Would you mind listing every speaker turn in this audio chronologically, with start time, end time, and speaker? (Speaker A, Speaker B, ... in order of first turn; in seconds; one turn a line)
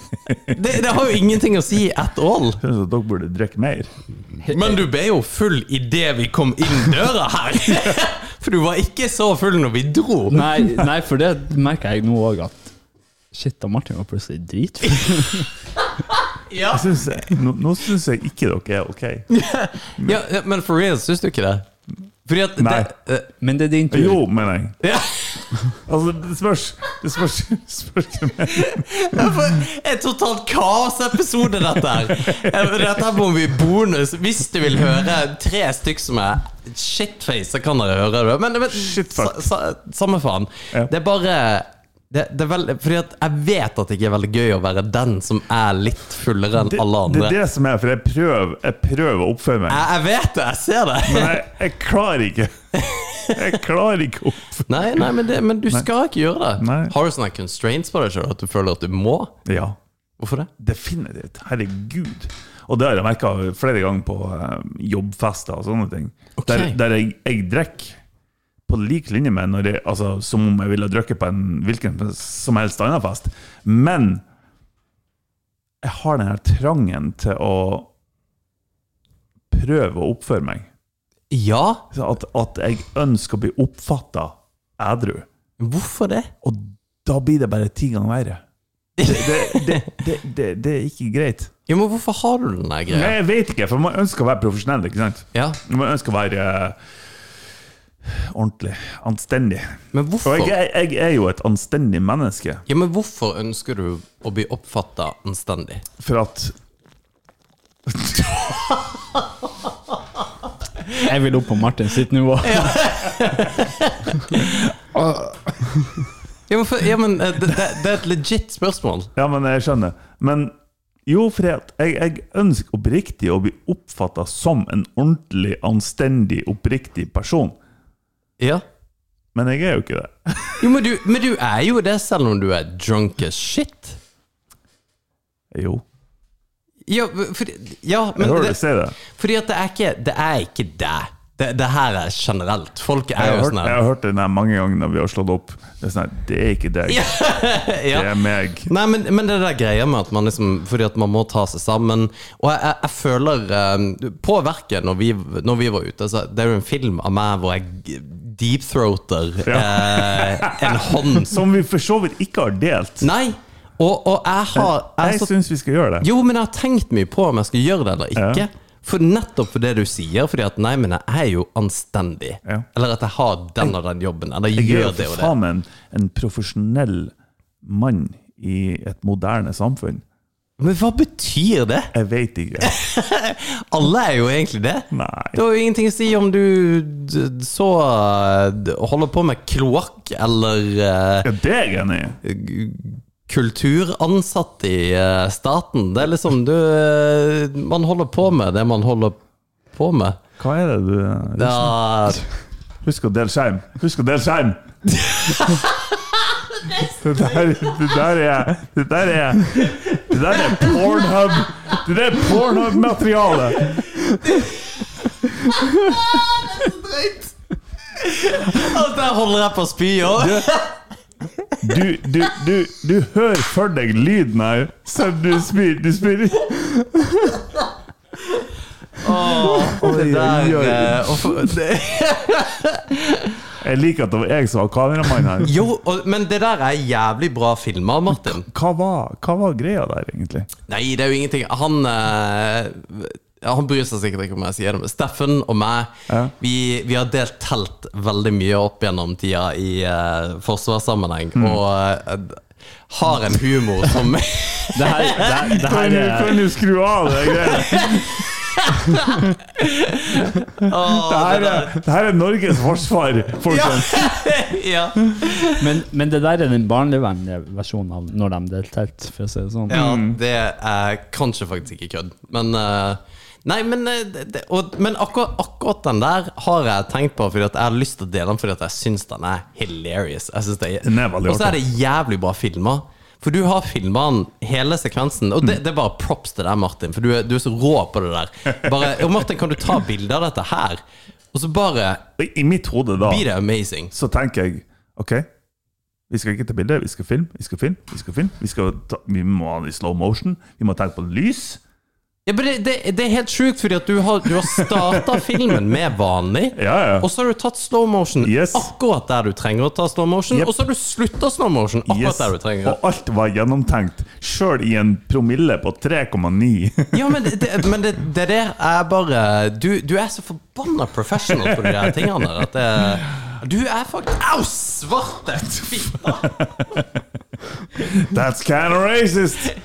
Speaker A: 0.5-2.6
Speaker B: 2.6-3.9
Speaker C: 4.5-4.8
Speaker A: 4.5-10.4
Speaker C: 10.3-12.7
Speaker C: 13.3-15.5
Speaker A: 16.1-17.3
Speaker B: 16.7-19.3
Speaker A: 19.3-21.7
Speaker A: 22.2-23.3
Speaker B: 22.6-22.9
Speaker C: 23.4-24.2
Speaker B: 23.9-24.8
Speaker A: 24.8-25.6
Speaker B: 25.9-28.9
Speaker A: 28.5-47.4
Speaker B: 32.3-32.6
Speaker B: 38.7-39.5
Speaker B: 46.6-49.9
Speaker A: 49.7-51.4
Speaker B: 51.0-52.5
Speaker A: 52.8-53.4
Speaker B: 53.3-55.1
Speaker A: 54.7-59.4
Speaker B: 56.6-56.9
Speaker B: 59.5-59.8
Speaker A: 60.2-60.5
Speaker B: 60.6-68.0
Speaker A: 66.4-66.8
Speaker B: 68.7-74.2
Speaker B: 75.8-77.9
Speaker B: 79.5-80.7
Speaker A: 81.3-81.9
Speaker B: 81.9-85.3
Speaker A: 85.6-86.3
Speaker B: 86.4-88.4
Speaker A: 89.0-89.9
Speaker B: 89.0-91.5
Speaker A: 91.7-93.1
Speaker B: 92.9-96.8
Speaker A: 95.3-95.6
Speaker B: 98.0-102.6
Speaker A: 99.9-100.6
Speaker A: 102.7-105.8
Speaker B: 106.0-106.5
Speaker B: 107.9-108.8
Speaker A: 108.7-110.2
Speaker C: 111.0-112.9
Speaker A: 112.4-114.6
Speaker B: 114.9-115.6
Speaker A: 116.5-119.1
Speaker B: 119.2-120.5
Speaker B: 121.1-127.6
Speaker A: 128.4-128.6
Speaker B: 129.3-130.7
Speaker A: 130.6-134.0
Speaker B: 135.5-135.8
Speaker A: 136.9-143.8
Speaker B: 138.2-139.0
Speaker B: 143.2-147.0
Speaker A: 146.9-148.1
Speaker B: 147.9-148.7
Speaker A: 148.7-161.4
Speaker B: 159.4-163.1
Speaker A: 163.0-165.3
Speaker B: 164.6-166.1
Speaker A: 166.0-175.3
Speaker B: 168.2-168.4
Speaker B: 174.6-180.0
Speaker A: 180.6-181.9
Speaker B: 181.9-182.7
Speaker A: 182.6-191.3
Speaker B: 184.9-185.4
Speaker B: 191.2-192.2
Speaker A: 192.2-199.2
Speaker A: 199.7-200.2
Speaker B: 200.4-201.8
Speaker A: 201.3-202.2
Speaker B: 202.8-204.7
Speaker A: 205.0-207.4
Speaker B: 206.9-213.8
Speaker A: 209.6-210.8
Speaker A: 213.6-214.9
Speaker A: 215.5-217.3
Speaker A: 217.9-220.8
Speaker B: 220.2-220.5
Speaker B: 221.6-226.7
Speaker A: 229.0-233.4
Speaker B: 229.4-231.4
Speaker B: 233.6-235.5
Speaker A: 235.4-238.5
Speaker B: 238.1-240.5
Speaker A: 240.7-255.3
Speaker B: 251.3-251.6
Speaker C: 254.8-256.5
Speaker B: 255.4-258.2
Speaker A: 257.5-261.8
Speaker B: 261.0-264.1
Speaker A: 263.5-265.7
Speaker C: 265.6-269.9
Speaker B: 269.7-270.2
Speaker A: 269.7-290.8
Speaker B: 280.8-281.6
Speaker A: 291.3-292.1
Speaker B: 292.2-293.2
Speaker A: 293.0-293.9
Speaker B: 293.9-295.3
Speaker B: 296.1-301.6
Speaker A: 302.3-312.8
Speaker B: 304.5-305.6
Speaker B: 306.6-307.1
Speaker B: 308.2-308.7
Speaker B: 311.9-317.3
Speaker A: 316.9-326.4
Speaker B: 321.3-322.4
Speaker B: 326.1-327.0
Speaker B: 327.8-329.5